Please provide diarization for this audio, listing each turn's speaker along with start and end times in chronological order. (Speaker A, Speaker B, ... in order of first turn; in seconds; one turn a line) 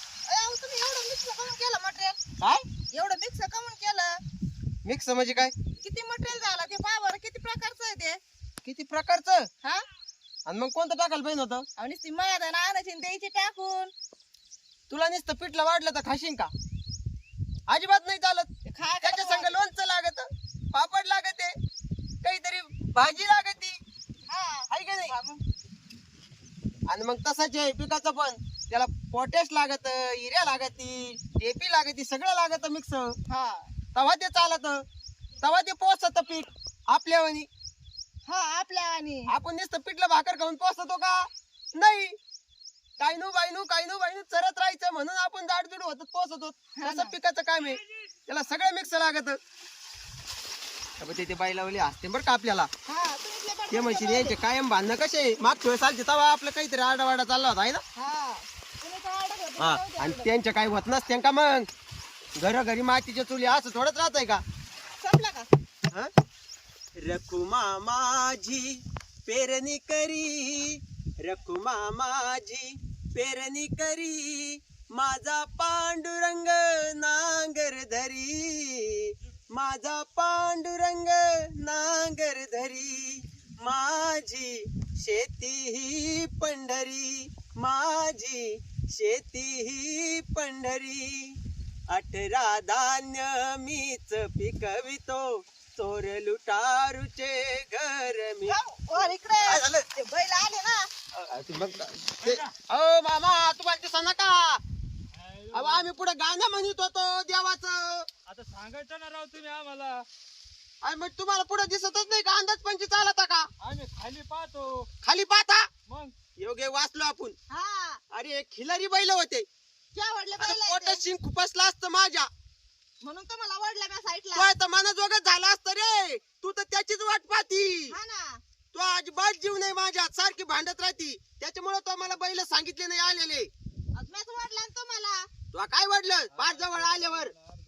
Speaker A: 0.3-2.2
Speaker A: 2.9-4.2
Speaker B: 4.8-5.5
Speaker A: 5.8-8.2
Speaker B: 8.6-9.5
Speaker B: 10.5-11.7
Speaker A: 11.8-13.9
Speaker B: 14.9-16.5
Speaker B: 17.7-18.5
Speaker A: 18.6-19.5
Speaker B: 19.0-21.6
Speaker B: 22.2-23.8
Speaker A: 24.3-25.4
Speaker B: 24.7-25.1
Speaker B: 26.9-33.1
Speaker A: 33.3-33.7
Speaker B: 34.0-34.8
Speaker B: 35.4-37.5
Speaker A: 38.3-39.3
Speaker B: 39.3-42.2
Speaker B: 43.0-49.4
Speaker A: 46.8-47.1
Speaker B: 51.0-52.7
Speaker A: 52.9-54.4
Speaker B: 53.7-57.8
Speaker A: 58.0-60.3
Speaker B: 59.6-61.7
Speaker B: 62.4-64.4
Speaker A: 65.0-65.5
Speaker B: 67.0-91.4
Speaker B: 91.9-98.6
Speaker A: 98.5-100.9
Speaker B: 99.4-99.9
Speaker B: 101.1-104.6
Speaker C: 102.2-102.5
Speaker C: 105.2-105.9
Speaker B: 105.5-108.1
Speaker C: 108.3-110.1
Speaker B: 110.8-113.5
Speaker C: 113.6-114.9
Speaker B: 115.0-115.7
Speaker C: 115.9-116.1
Speaker B: 116.4-117.4
Speaker A: 117.5-118.0
Speaker B: 118.1-119.5
Speaker A: 119.9-121.0
Speaker B: 120.4-122.3
Speaker A: 123.0-124.5
Speaker B: 124.3-128.0
Speaker A: 127.9-128.4
Speaker B: 128.7-133.5
Speaker A: 133.9-135.3
Speaker B: 135.5-137.3
Speaker C: 136.4-137.3